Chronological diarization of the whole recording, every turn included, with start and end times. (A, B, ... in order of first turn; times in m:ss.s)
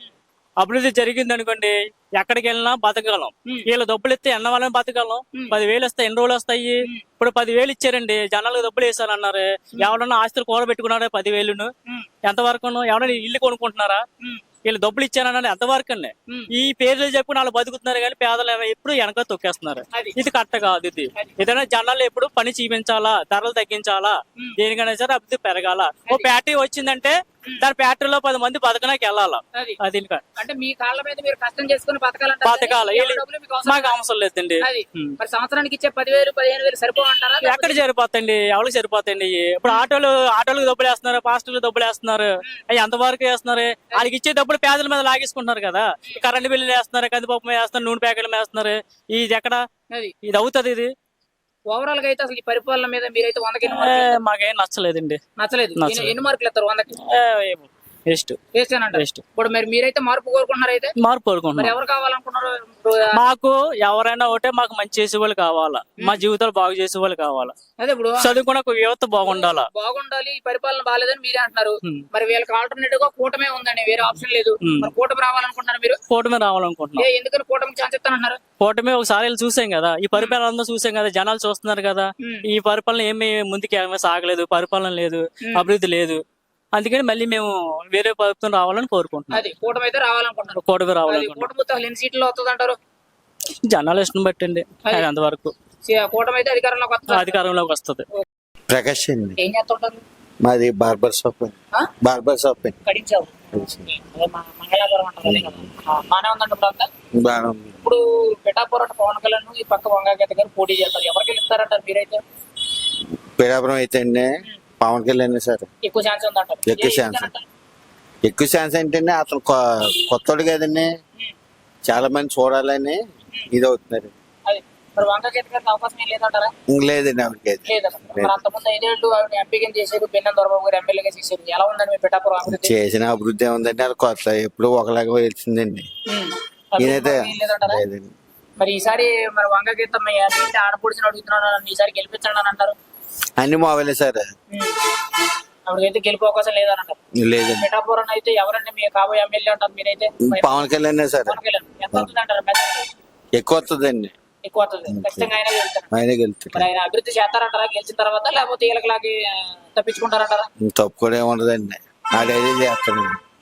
0:00.6-0:11.7 A
0:12.2-0:14.0 A
0:14.6-0:30.2 A
0:30.4-0:34.0 B
0:32.4-0:35.1 A
0:34.6-0:37.8 B
0:37.4-0:49.6 A
0:50.2-0:50.9 A
0:51.7-0:54.1 B
0:53.6-0:55.2 A
0:55.4-0:57.0 B
0:55.8-0:56.1 A
0:57.0-0:58.4 A
0:58.5-1:00.9 B
0:58.9-0:59.2 A
1:01.0-1:01.8 A
1:01.6-1:03.2 B
1:03.1-1:07.5 A
1:07.8-1:08.4 B
1:08.2-1:09.7 A
1:09.2-1:16.0 B
1:14.6-1:14.9 A
1:16.1-1:17.1 A
1:17.0-1:18.4 B
1:18.6-1:26.2 A
1:26.7-1:29.4 A
1:29.3-1:32.8 B
1:30.6-1:31.5 A
1:33.6-1:35.5 A
1:35.8-1:37.4 B
1:37.1-1:38.0 A
1:38.7-1:39.4 C
1:39.4-1:40.0 B
1:40.4-1:42.8 C
1:42.8-1:46.9 B
1:43.5-1:43.8 C
1:45.2-1:45.6 C
1:47.2-1:47.8 C
1:47.8-1:52.2 B
1:53.4-1:54.3 C
1:54.8-1:55.7 C
1:55.8-1:57.4 B
1:56.6-1:57.3 C
1:58.2-2:00.9 C
2:01.8-2:03.0 C
2:03.5-2:04.1 C
2:04.5-2:06.5 B
2:06.7-2:08.3 C
2:07.6-2:12.7 B
2:12.4-2:15.9 C
2:16.1-2:17.8 B
2:16.8-2:18.1 C
2:18.6-2:22.8 B
2:23.4-2:24.3 C
2:24.5-2:24.8 B
2:25.7-2:27.0 B
2:27.2-2:27.7 C
2:27.6-2:30.6 B
2:30.2-2:31.4 C
2:31.3-2:32.9 B
2:33.4-2:34.1 C
2:34.5-2:35.9 B
2:34.9-2:35.3 C
2:35.9-2:36.7 C
2:36.5-2:40.5 B
2:40.6-2:43.2 C